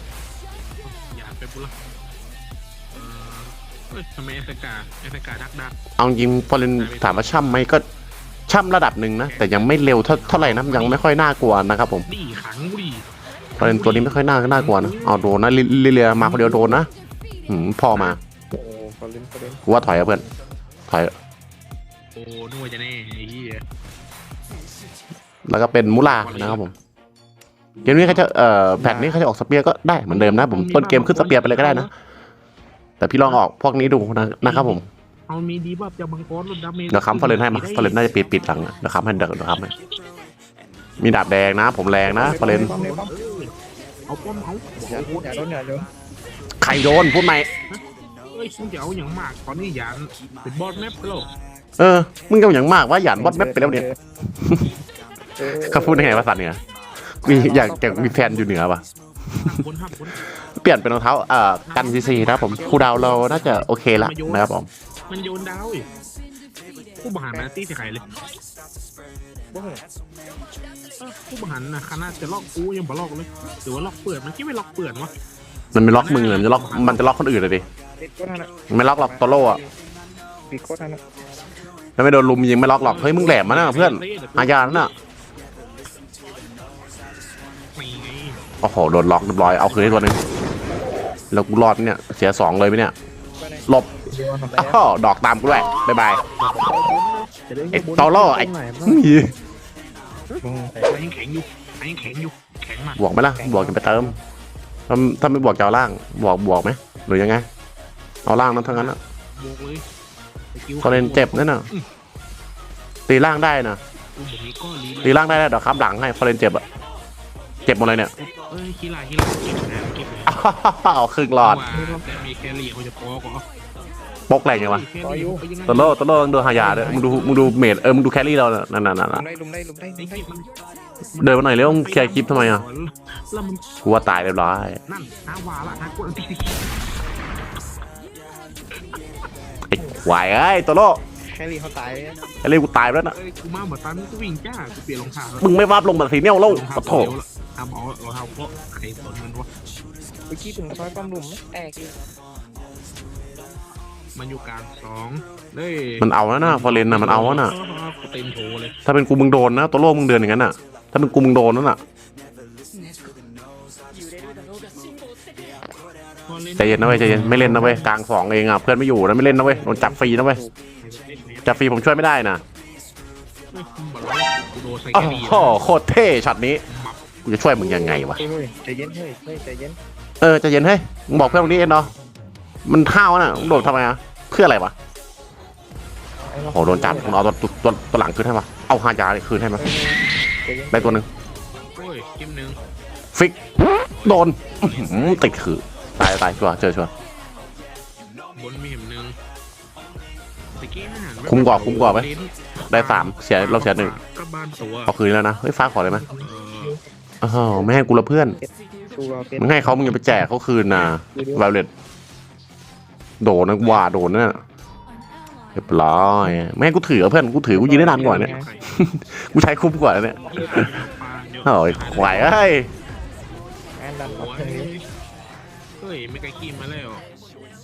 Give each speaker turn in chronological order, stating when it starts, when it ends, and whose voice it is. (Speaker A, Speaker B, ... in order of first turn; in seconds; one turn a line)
Speaker A: 0.8-1.8
Speaker A: 2.9-5.8
Speaker B: 6.0-7.8
Speaker A: 6.8-7.7
Speaker B: 8.5-12.1
Speaker A: 9.2-11.0
Speaker A: 12.1-13.1
Speaker A: 13.6-15.2
Speaker B: 13.6-16.9
Speaker A: 16.2-16.8
Speaker B: 17.5-18.2
Speaker C: 18.5-20.2
Speaker B: 19.7-20.2
Speaker A: 22.1-23.6
Speaker B: 25.5-26.7
Speaker A: 26.1-26.6
Speaker B: 27.9-31.9
Speaker A: 28.0-28.2
Speaker C: 28.8-29.2
Speaker A: 30.1-31.9
Speaker B: 33.0-34.9
Speaker A: 34.4-38.1
Speaker B: 36.9-39.7
Speaker B: 41.0-42.8
Speaker C: 42.0-43.1
Speaker A: 42.2-43.5
Speaker A: 44.1-45.5
Speaker C: 44.9-45.9
Speaker B: 46.6-47.5
Speaker A: 47.7-51.3
Speaker B: 51.8-53.9
Speaker C: 53.1-54.0
Speaker B: 54.4-54.7
Speaker C: 55.4-56.3
Speaker B: 55.5-56.6
Speaker B: 57.2-58.8
Speaker C: 57.2-58.5
Speaker A: 59.4-60.2
Speaker B: 60.5-64.7
Speaker A: 61.6-64.5
Speaker C: 62.5-63.6
Speaker A: 65.1-65.9
Speaker A: 67.0-68.1
Speaker C: 69.5-69.8
Speaker A: 71.0-75.1
Speaker B: 75.7-77.7
Speaker A: 76.0-77.1
Speaker C: 78.0-79.7
Speaker B: 78.7-79.6
Speaker C: 80.5-81.0
Speaker B: 82.0-84.9
Speaker A: 82.8-85.0
Speaker A: 87.8-88.4
Speaker B: 88.6-90.2
Speaker A: 89.4-90.2
Speaker B: 91.3-92.9
Speaker C: 93.4-94.8
Speaker B: 94.6-96.2
Speaker A: 96.4-99.2
Speaker B: 97.7-99.3
Speaker A: 100.3-103.0
Speaker C: 100.4-101.0
Speaker B: 103.0-104.2
Speaker C: 103.4-104.2
Speaker B: 104.9-107.5
Speaker B: 108.2-109.0
Speaker A: 108.6-109.8
Speaker A: 110.5-111.9
Speaker B: 110.8-111.7
Speaker B: 113.1-113.8
Speaker A: 114.2-115.4
Speaker B: 115.0-116.6
Speaker B: 117.7-118.1
Speaker A: 118.2-120.4
Speaker B: 120.3-121.7
Speaker A: 121.3-123.5
Speaker C: 121.7-122.1
Speaker B: 124.3-124.9
Speaker A: 124.5-127.6
Speaker C: 125.0-125.5
Speaker B: 125.7-129.2
Speaker C: 126.5-127.1
Speaker C: 129.1-130.3
Speaker A: 130.0-130.4
Speaker A: 131.2-133.6
Speaker B: 131.2-132.6
Speaker B: 133.8-134.8
Speaker A: 134.9-136.7
Speaker B: 139.7-141.0
Speaker C: 141.3-142.2
Speaker B: 142.4-143.2
Speaker A: 143.1-145.5
Speaker B: 145.4-147.1
Speaker A: 146.4-149.5
Speaker C: 150.3-151.9
Speaker A: 154.2-158.8
Speaker B: 156.0-157.5
Speaker B: 158.9-161.8
Speaker A: 166.3-167.9
Speaker B: 166.6-170.4
Speaker C: 169.2-170.5
Speaker A: 170.8-171.7
Speaker B: 171.4-172.4
Speaker A: 173.5-175.6
Speaker B: 174.9-176.6
Speaker A: 176.7-177.0
Speaker B: 177.3-178.2
Speaker C: 177.6-179.8
Speaker B: 180.2-181.9
Speaker A: 181.1-182.0
Speaker B: 182.7-184.7
Speaker A: 183.3-183.8
Speaker C: 186.3-187.2
Speaker B: 186.5-189.6
Speaker C: 189.6-191.1
Speaker B: 190.7-191.1
Speaker A: 191.8-192.6
Speaker B: 193.2-196.9
Speaker A: 193.9-195.4
Speaker A: 198.4-199.2
Speaker A: 200.6-204.9
Speaker B: 201.3-202.1
Speaker B: 202.7-204.0
Speaker B: 204.9-206.1
Speaker C: 205.9-206.8
Speaker A: 206.2-206.8
Speaker B: 207.2-208.4
Speaker C: 208.4-209.8
Speaker B: 209.4-211.7
Speaker A: 209.8-211.0
Speaker C: 211.1-211.4
Speaker B: 213.2-214.4
Speaker A: 213.6-213.9
Speaker B: 215.6-220.8
Speaker C: 217.5-218.5
Speaker A: 217.6-218.7
Speaker A: 220.2-222.4
Speaker B: 221.4-222.7
Speaker C: 223.8-224.8
Speaker A: 224.0-224.8
Speaker A: 225.8-227.1